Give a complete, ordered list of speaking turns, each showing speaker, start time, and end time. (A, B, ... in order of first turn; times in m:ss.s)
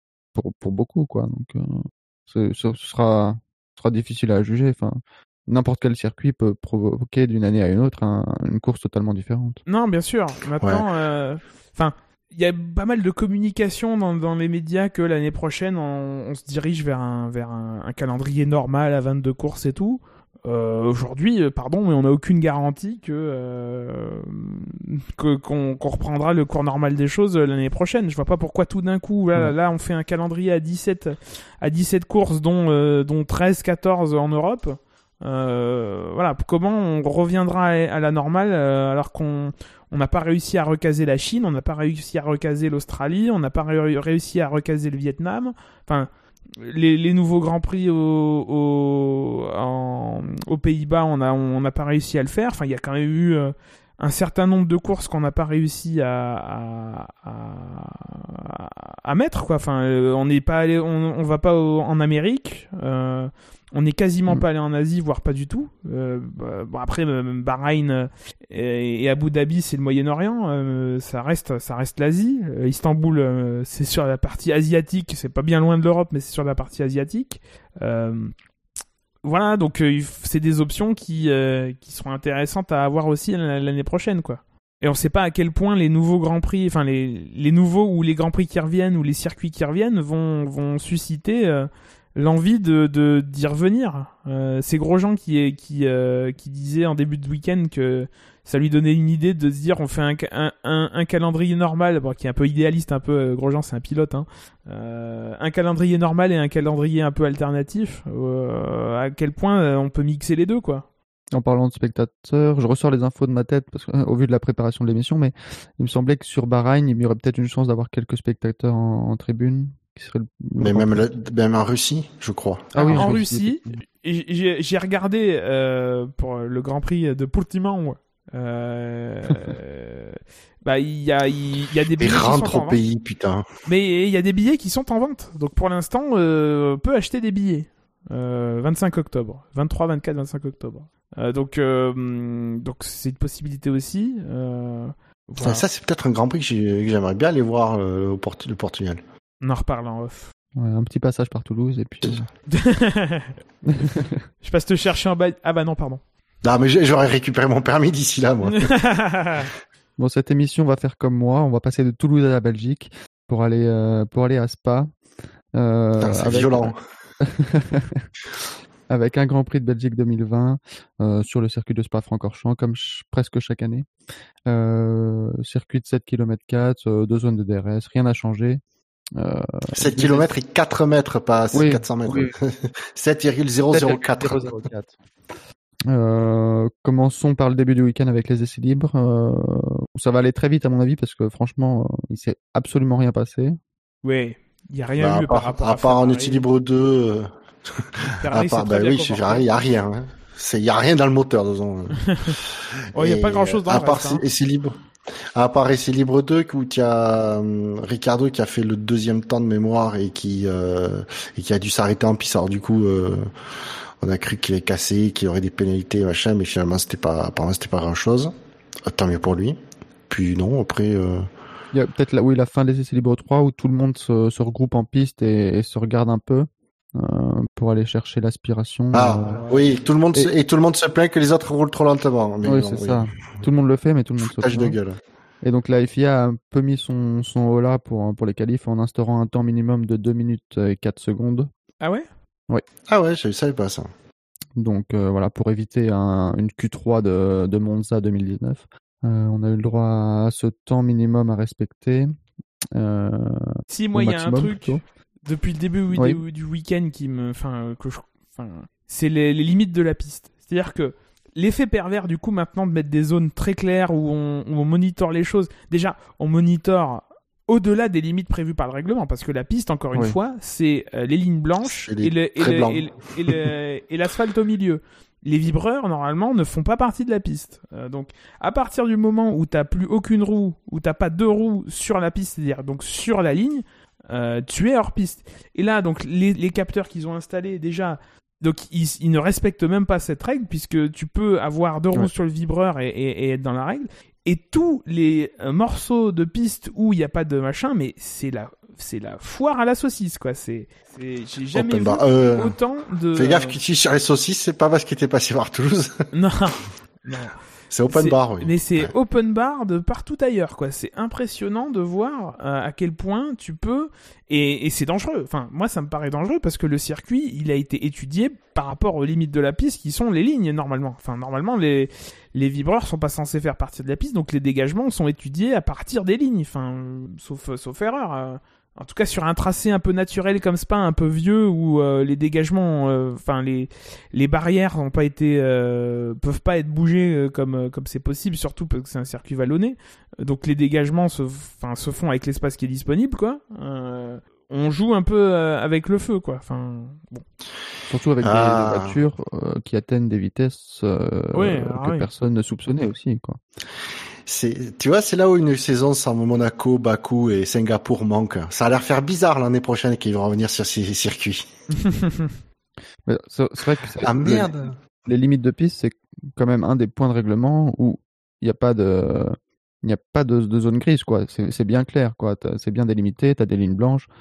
0:00.3-0:09.6 A
0:09.6-1:18.3 B
1:19.2-1:50.9 B
1:51.3-2:01.0 A
2:00.6-2:03.1 C
2:02.7-2:12.8 B
2:02.8-2:03.7 A
2:12.0-2:13.4 C
2:13.6-2:25.6 B
2:25.4-2:29.0 C
2:29.4-2:30.3 B
2:30.5-2:32.3 A
2:32.5-2:33.3 B
2:33.7-2:34.2 A
2:34.4-2:36.0 B
2:36.4-2:38.7 C
2:38.5-2:39.5 B
2:40.0-2:44.9 A
2:45.5-2:48.0 A
2:46.0-2:46.8 C
2:48.9-2:53.9 A
2:54.5-2:58.6 A
2:59.2-3:00.3 A
2:59.7-3:04.4 C
3:01.5-3:02.3 A
3:03.7-3:04.9 A
3:05.9-3:13.6 A
3:14.0-3:16.4 B
3:15.0-3:22.2 C
3:18.2-3:19.5 B
3:22.0-3:22.4 B
3:22.9-3:24.2 B
3:22.9-3:24.8 C
3:25.3-3:33.3 C
3:34.0-3:38.3 C
3:38.9-3:39.6 C
3:40.1-3:41.2 C
3:41.7-3:49.5 A
3:48.9-3:53.1 C
3:49.4-3:49.7 B
3:52.4-3:54.8 A
3:54.3-3:55.0 C
3:55.4-4:01.5 A
4:01.8-4:02.1 B
4:02.9-4:03.9 C
4:04.6-4:12.1 A
4:12.7-4:14.8 A
4:13.7-5:03.6 B
4:15.9-4:16.2 A
4:31.8-4:33.3 C
5:01.5-5:02.5 C
5:03.2-5:06.0 C
5:06.1-5:07.4 B
5:07.7-5:08.9 C
5:07.9-5:47.2 B
5:47.9-5:53.4 A
5:48.2-5:49.0 C
5:51.3-5:52.1 B
5:54.3-6:01.4 C
6:01.8-6:02.3 B
6:03.0-6:04.5 A
6:04.0-6:04.7 C
6:05.0-6:14.1 A